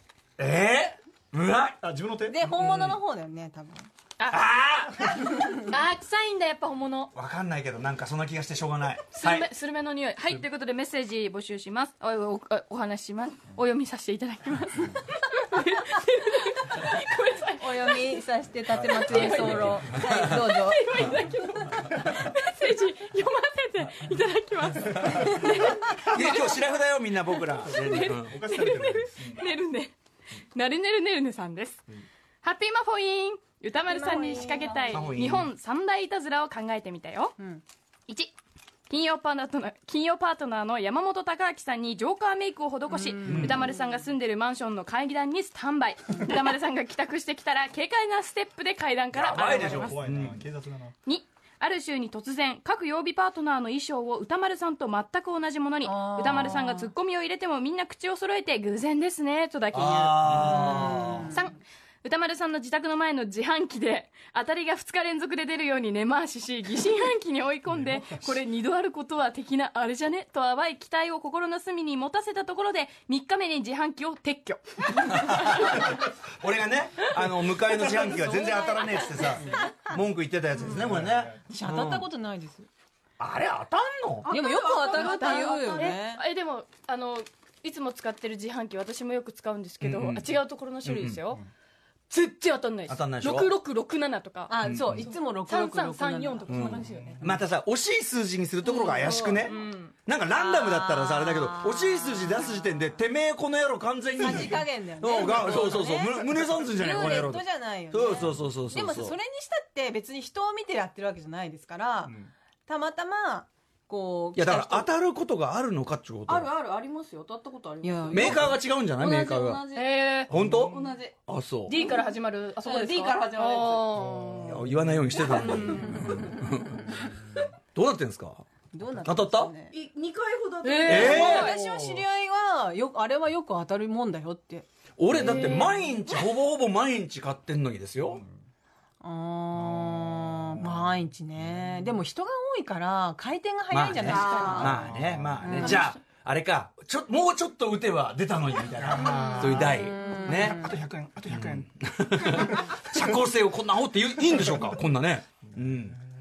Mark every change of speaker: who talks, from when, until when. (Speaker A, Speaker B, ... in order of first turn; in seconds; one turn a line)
Speaker A: 0.4-1.8
Speaker B: 1.8-2.7
Speaker C: 2.3-3.9
Speaker A: 2.6-2.9
Speaker D: 4.2-4.5
Speaker A: 4.3-5.1
Speaker D: 5.6-7.1
Speaker A: 7.1-9.5
Speaker D: 9.1-18.2
Speaker C: 17.6-21.0
Speaker A: 18.7-20.4
Speaker D: 18.8-26.5
Speaker A: 26.1-28.4
Speaker D: 27.7-29.9
Speaker B: 27.8-29.2
Speaker D: 30.5-31.8
Speaker D: 32.4-37.4
Speaker C: 33.9-35.0
Speaker A: 34.9-35.5
Speaker D: 38.1-38.3
Speaker D: 38.9-50.0
Speaker C: 42.9-43.7
Speaker A: 43.3-43.6
Speaker A: 49.1-50.4
Speaker B: 49.2-50.9
Speaker D: 51.0-75.9
Speaker C: 55.8-56.9
Speaker A: 59.7-61.3
Speaker C: 60.4-61.4
Speaker A: 75.1-82.1
Speaker D: 77.7-79.7
Speaker B: 80.8-81.4
Speaker C: 81.5-82.7
Speaker A: 83.2-84.3
Speaker C: 84.2-86.2
Speaker E: 84.3-86.0
Speaker D: 84.3-91.4
Speaker A: 89.8-91.2
Speaker D: 92.1-97.2
Speaker A: 92.9-93.5
Speaker C: 94.5-96.8
Speaker A: 94.6-95.0
Speaker A: 96.5-99.5
Speaker B: 96.9-97.3
Speaker D: 98.6-99.9
Speaker A: 100.0-109.2
Speaker D: 100.5-101.5
Speaker C: 104.2-112.2
Speaker B: 112.0-112.3
Speaker C: 112.7-114.9
Speaker A: 114.3-116.5
Speaker E: 116.3-121.1
Speaker C: 117.8-118.4
Speaker A: 118.1-119.6
Speaker D: 119.7-120.3
Speaker A: 120.3-121.7
Speaker E: 121.7-124.0
Speaker D: 121.7-124.6
Speaker A: 124.4-127.0
Speaker D: 125.3-125.6
Speaker C: 125.7-126.1
Speaker A: 127.7-128.4
Speaker C: 128.7-129.7
Speaker A: 129.0-129.5
Speaker E: 129.7-131.4
Speaker D: 130.6-131.6
Speaker A: 130.8-131.5
Speaker C: 130.9-134.7
Speaker A: 135.0-138.2
Speaker D: 135.1-136.1
Speaker C: 139.0-145.9
Speaker B: 139.6-141.9
Speaker A: 143.7-150.7
Speaker E: 144.2-144.6
Speaker B: 144.7-145.6
Speaker C: 148.9-150.7
Speaker B: 150.3-153.1
Speaker A: 151.3-156.0
Speaker B: 155.5-156.0